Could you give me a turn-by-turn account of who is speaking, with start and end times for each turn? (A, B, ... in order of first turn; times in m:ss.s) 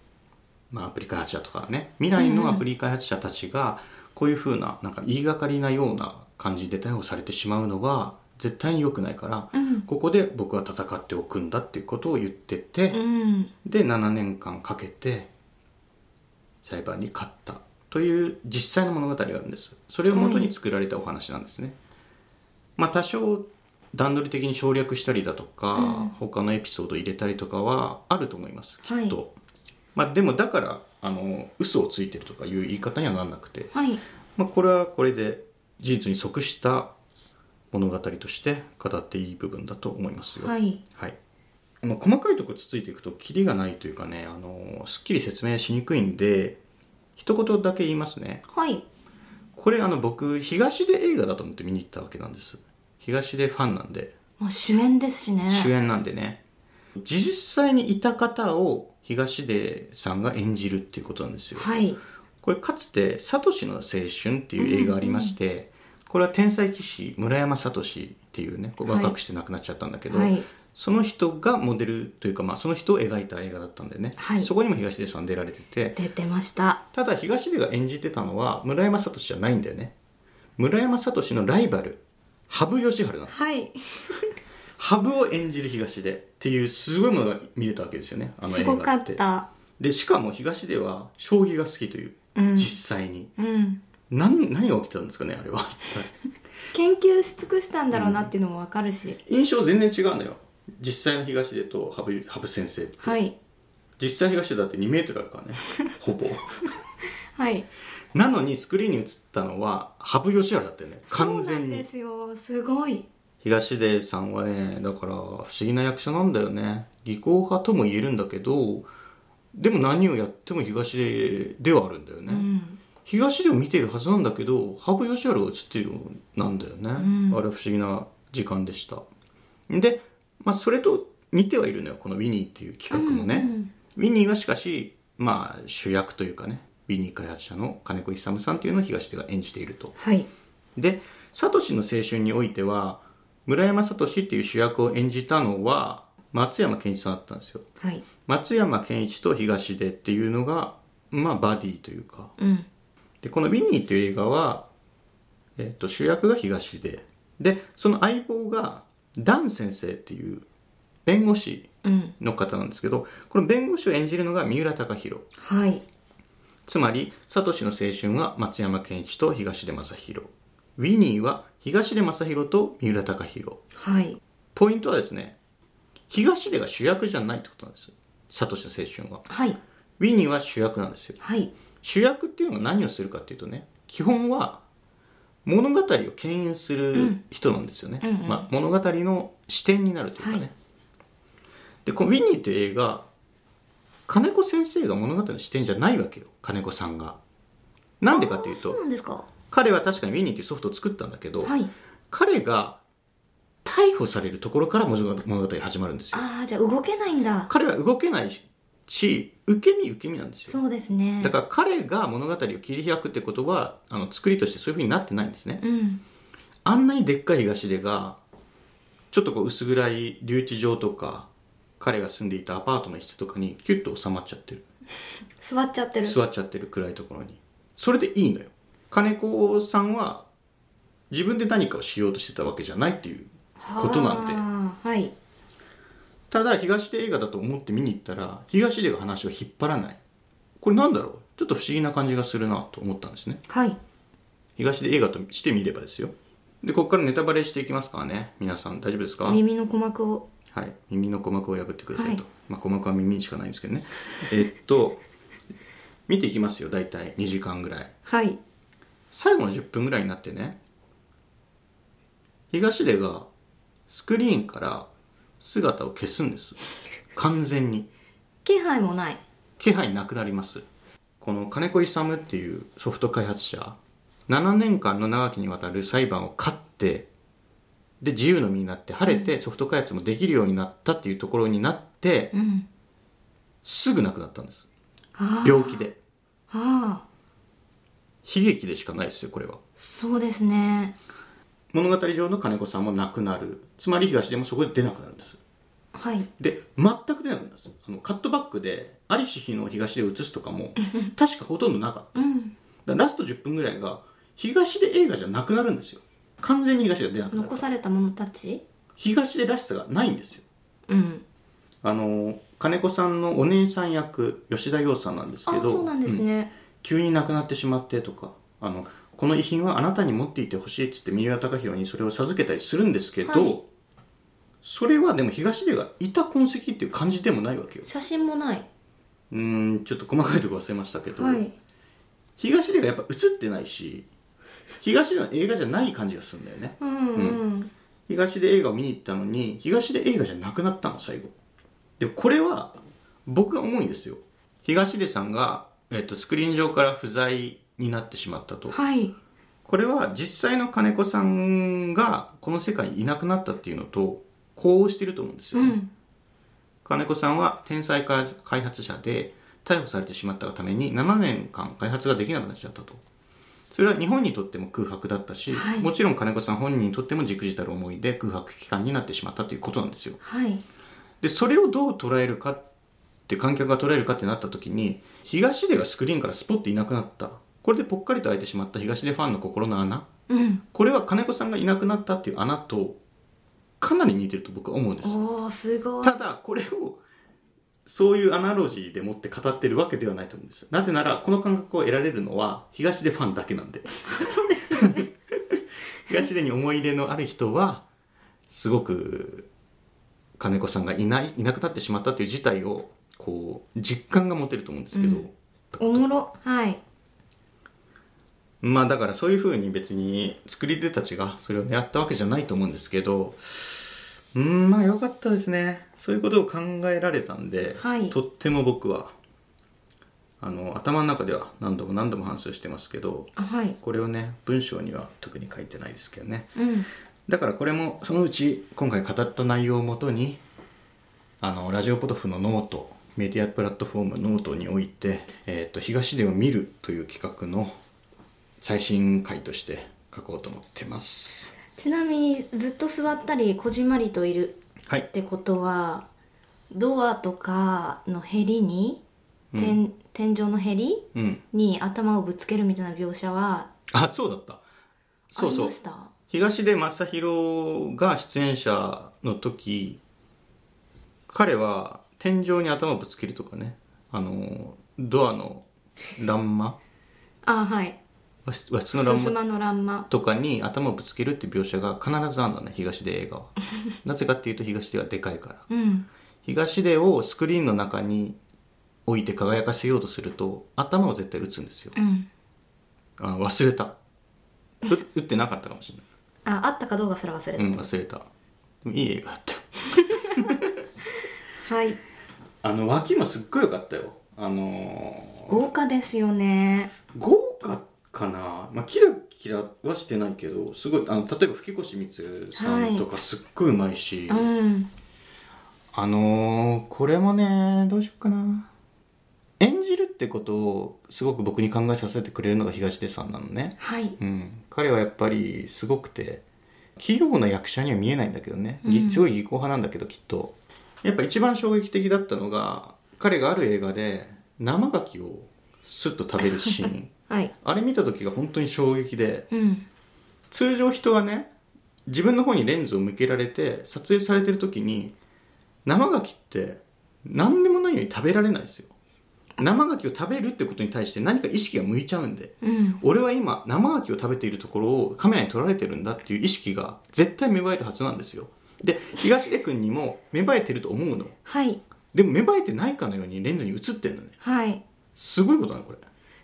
0:00.7-0:13.0 A
0:02.2-0:02.6 B
0:09.5-0:09.9 B
0:12.9-0:13.5 B
0:13.6-0:15.3 A
0:16.6-0:21.8 A
0:20.1-0:20.5 B
0:22.8-0:29.3 A
0:25.8-0:26.1 B
0:28.9-0:29.2 B
0:30.0-0:33.7 A
0:33.7-0:34.0 B
0:34.4-0:36.9 A
0:37.7-0:41.2 A
0:40.4-0:40.8 B
0:41.8-0:46.6 A
0:47.2-0:48.4 A
0:48.5-0:48.8 B
0:49.6-0:54.1 A
0:54.4-0:55.7 B
0:55.5-0:56.4 A
0:57.0-1:01.7 A
1:01.6-1:02.0 B
1:02.4-1:16.0 A
1:04.6-1:05.4 B
1:08.8-1:09.2 B
1:10.1-1:10.5 B
1:14.2-1:14.5 B
1:16.0-1:16.8 B
1:16.9-1:19.9 A
1:20.6-1:23.3 A
1:23.3-1:24.3 B
1:24.8-1:29.2 A
1:28.4-1:29.5 B
1:29.8-1:33.3 A
1:32.4-1:32.8 B
1:33.4-1:33.8 B
1:34.1-1:36.1 A
1:36.7-1:39.2 B
1:37.9-1:38.3 A
1:39.2-1:43.2 A
1:43.0-1:43.4 B
1:44.0-1:46.7 A
1:47.4-1:47.7 B
1:48.1-1:51.9 A
1:51.1-1:53.1 B
1:53.4-1:58.9 A
1:59.5-2:02.5 A
2:02.3-2:02.8 B
2:03.0-2:09.0 A
2:07.0-2:07.4 B
2:09.7-2:20.0 A
2:12.9-2:13.7 B
2:20.0-2:20.3 B
2:20.8-2:27.7 A
2:27.8-2:28.0 B
2:28.2-2:32.3 A
2:32.4-2:32.7 B
2:33.2-2:34.7 A
2:35.6-2:40.5 A
2:41.1-2:45.3 A
2:41.8-2:42.2 B
2:45.4-2:45.8 B
2:46.7-2:53.6 A
2:53.8-2:54.2 B
2:54.6-2:55.4 A
2:56.1-2:59.3 A
2:59.3-2:59.6 B
3:00.0-3:01.2 A
3:01.2-3:01.5 B
3:01.8-3:04.6 A
3:05.4-3:10.5 A
3:06.9-3:07.2 B
3:08.0-3:08.5 B
3:10.2-3:10.5 B
3:11.8-3:13.1 A
3:14.1-3:17.2 A
3:18.0-3:18.8 A
3:18.1-3:19.3 B
3:19.5-3:21.6 A
3:21.4-3:21.7 B
3:22.1-3:22.8 A
3:23.6-3:26.2 A
3:26.1-3:27.5 B
3:27.5-3:30.6 A
3:30.5-3:31.4 B
3:31.2-3:35.6 A
3:35.6-3:36.0 B
3:36.6-3:38.2 A
3:39.1-3:44.7 A
3:45.4-3:46.2 B
3:46.0-3:50.3 A
3:51.1-3:54.4 A
3:53.6-3:55.1 B
3:56.3-4:00.0 A
4:00.6-4:03.4 A
4:03.5-4:03.8 B
4:04.6-4:09.4 A
4:09.2-4:10.3 B
4:10.5-4:15.0 A
4:12.0-4:12.2 B
4:16.1-4:17.9 A
4:18.0-4:18.4 B
4:19.1-4:20.6 A
4:22.5-4:23.3 A
4:23.9-4:24.9 A
4:25.4-4:26.6 A
4:27.1-4:27.9 A
4:28.4-4:29.2 B
4:29.6-4:30.6 A
4:31.2-4:33.8 A
4:34.3-4:37.1 A
4:38.0-4:42.3 A
4:42.3-4:42.7 B
4:43.6-4:44.7 A
4:45.2-4:45.8 B
4:45.4-4:46.0 A
4:46.5-4:47.0 B
4:48.2-4:49.6 A
4:49.8-4:51.0 B
4:51.7-4:55.4 A
4:55.9-4:56.3 B
4:56.4-5:02.2 A
5:02.2-5:02.5 B
5:02.9-5:07.7 A
5:07.3-5:08.6 B
5:09.0-5:10.4 A
5:10.9-5:11.2 B
5:11.8-5:16.2 A
5:15.5-5:16.5 B
5:16.8-5:23.7 A
5:23.2-5:23.6 B
5:24.6-5:27.9 A
5:27.9-5:28.7 B
5:29.3-5:31.4 A
5:31.1-5:31.5 B
5:32.4-5:34.1 A
5:34.8-5:37.4 A
5:36.8-5:37.7 B
5:38.1-5:41.3 A
5:42.0-5:48.8 A
5:48.7-5:49.2 B
5:49.6-5:55.8 A
5:55.5-5:55.9 B
5:56.8-6:03.0 A
6:03.7-6:10.2 A
6:05.5-6:05.9 B
6:10.2-6:10.6 B
6:11.2-6:12.6 A
6:13.3-6:20.1 A
6:20.3-6:20.6 B
6:20.7-6:23.0 A
6:23.8-6:25.2 A
6:25.0-6:26.2 B
6:26.0-6:27.0 A
6:27.9-6:34.0 A
6:34.1-6:35.1 B
6:34.7-6:37.8 A
6:38.5-6:39.5 A
6:40.4-6:46.1 A
6:44.9-6:45.3 B
6:45.8-6:46.8 B
6:48.6-6:59.1 A
6:57.8-6:58.2 B
7:00.4-7:06.6 A
7:03.4-7:03.8 B
7:06.6-7:06.9 B
7:07.3-7:10.4 A
7:11.4-7:17.8 A
7:18.6-7:21.5 A
7:21.8-7:24.6 B
7:25.1-7:26.1 B
7:26.7-7:29.0 B
7:29.5-7:29.8 A
7:29.6-7:33.7 B
7:31.1-7:31.4 A
7:33.9-7:34.6 A
7:35.3-7:35.7 A
7:35.3-7:36.1 B
7:36.3-7:40.0 A
7:41.3-7:46.8 A
7:47.4-7:48.0 B
7:48.5-7:49.4 A
7:48.9-7:50.1 B
7:50.1-7:55.7 A
7:55.7-7:56.1 B
7:56.4-7:58.4 A
7:59.1-8:02.0 A
8:02.0-8:02.3 B
8:03.2-8:04.0 A
8:04.8-8:06.0 A
8:06.4-8:07.9 B
8:07.6-8:08.3 A
8:08.8-8:10.7 A
8:11.5-8:12.0 B
8:12.6-8:15.6 A
8:15.5-8:16.9 B
8:17.1-8:24.5 A
8:22.6-8:23.1 B
8:24.3-8:24.9 B
8:25.9-8:28.7 A
8:29.6-8:36.4 A
8:33.8-8:34.2 B
8:37.0-8:49.5 A
8:38.8-8:39.2 B
8:46.4-8:47.5 B
8:49.5-8:49.9 B
8:50.5-8:51.5 A
8:52.1-8:55.2 A
8:55.9-8:58.9 A
8:59.6-9:11.4 A
9:02.6-9:03.0 B
9:11.4-9:11.8 B
9:12.1-9:14.4 A
9:14.4-9:14.8 B
9:15.2-9:16.0 A